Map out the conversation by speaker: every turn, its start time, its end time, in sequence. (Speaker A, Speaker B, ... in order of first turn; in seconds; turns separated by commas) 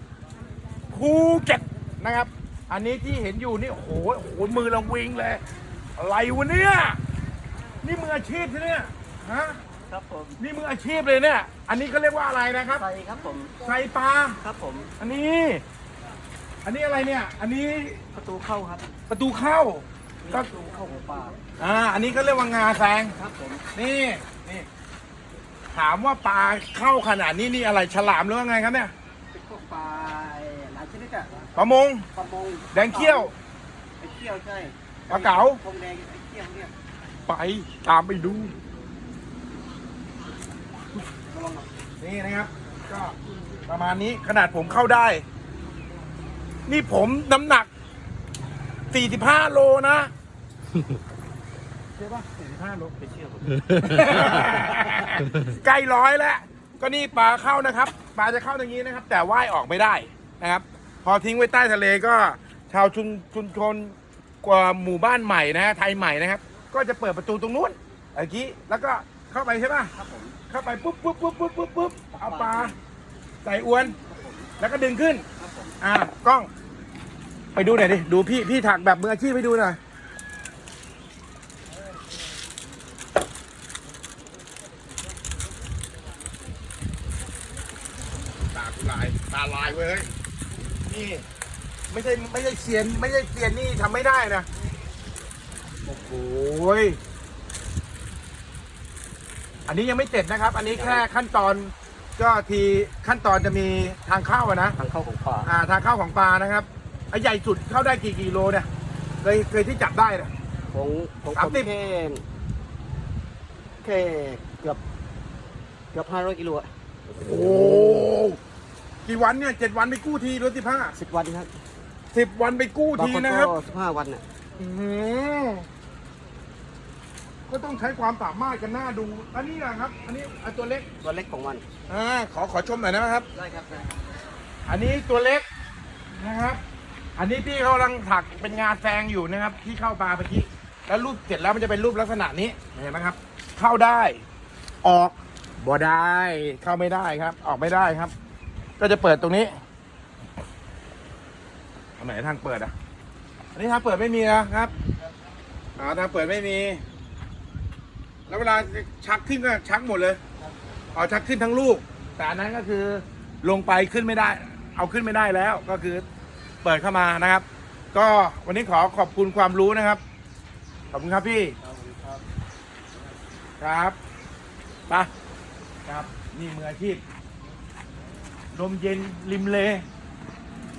Speaker A: 0.9-5.4, Speaker A: 6.0-7.0, Speaker A: 7.8-9.6, Speaker B: 9.9-10.4, Speaker A: 10.4-12.8, Speaker B: 12.8-13.5, Speaker A: 13.6-14.4, Speaker B: 14.4-14.9, Speaker A: 15.0-15.6, Speaker A: 16.6-18.0, Speaker B: 18.1-18.9, Speaker A: 19.1-20.5, Speaker B: 20.2-21.4, Speaker A: 21.6-23.1, Speaker B: 23.1-23.6, Speaker A: 23.7-24.7, Speaker A: 25.7-28.9, Speaker B: 29.3-31.5, Speaker A: 31.6-32.1, Speaker B: 32.1-33.3, Speaker A: 32.7-33.3, Speaker B: 34.0-36.7, Speaker A: 35.1-35.6, Speaker A: 37.3-38.5, Speaker B: 41.2-41.7, Speaker A: 42.0-45.2, Speaker A: 46.7-47.7, Speaker A: 48.9-50.1, Speaker A: 52.0-52.2, Speaker B: 52.2-55.1, Speaker A: 53.8-69.9, Speaker B: 69.9-70.4, Speaker A: 70.5-72.7, Speaker B: 72.2-72.8, Speaker A: 73.4-73.9, Speaker B: 73.8-74.6, Speaker A: 74.6-75.2, Speaker B: 75.3-75.8, Speaker A: 75.8-76.5, Speaker A: 77.5-79.8, Speaker A: 88.5-90.1, Speaker A: 90.9-91.2, Speaker A: 91.9-94.5, Speaker A: 95.9-97.0, Speaker A: 99.7-104.8, Speaker B: 100.7-101.0, Speaker B: 104.8-105.5, Speaker A: 105.4-108.7, Speaker A: 109.2-110.3, Speaker B: 110.7-112.2, Speaker A: 111.3-111.7, Speaker B: 113.8-114.8, Speaker B: 115.9-116.7, Speaker A: 117.1-118.4, Speaker A: 119.0-120.9, Speaker B: 120.9-121.6, Speaker A: 122.1-123.5, Speaker B: 123.0-124.2, Speaker A: 124.6-125.7, Speaker A: 127.5-130.9, Speaker B: 131.0-131.6, Speaker A: 131.9-133.3, Speaker B: 133.3-133.9, Speaker A: 134.7-135.4, Speaker A: 136.1-136.6, Speaker A: 137.2-144.2, Speaker A: 144.8-148.1, Speaker A: 148.8-149.6, Speaker A: 152.0-152.7, Speaker A: 153.5-154.7, Speaker A: 155.8-156.8, Speaker A: 158.3-160.2, Speaker A: 160.9-166.0, Speaker A: 166.6-170.0, Speaker A: 170.9-171.6, Speaker B: 171.6-172.2, Speaker A: 173.6-173.9, Speaker A: 175.8-177.0, Speaker A: 178.5-179.8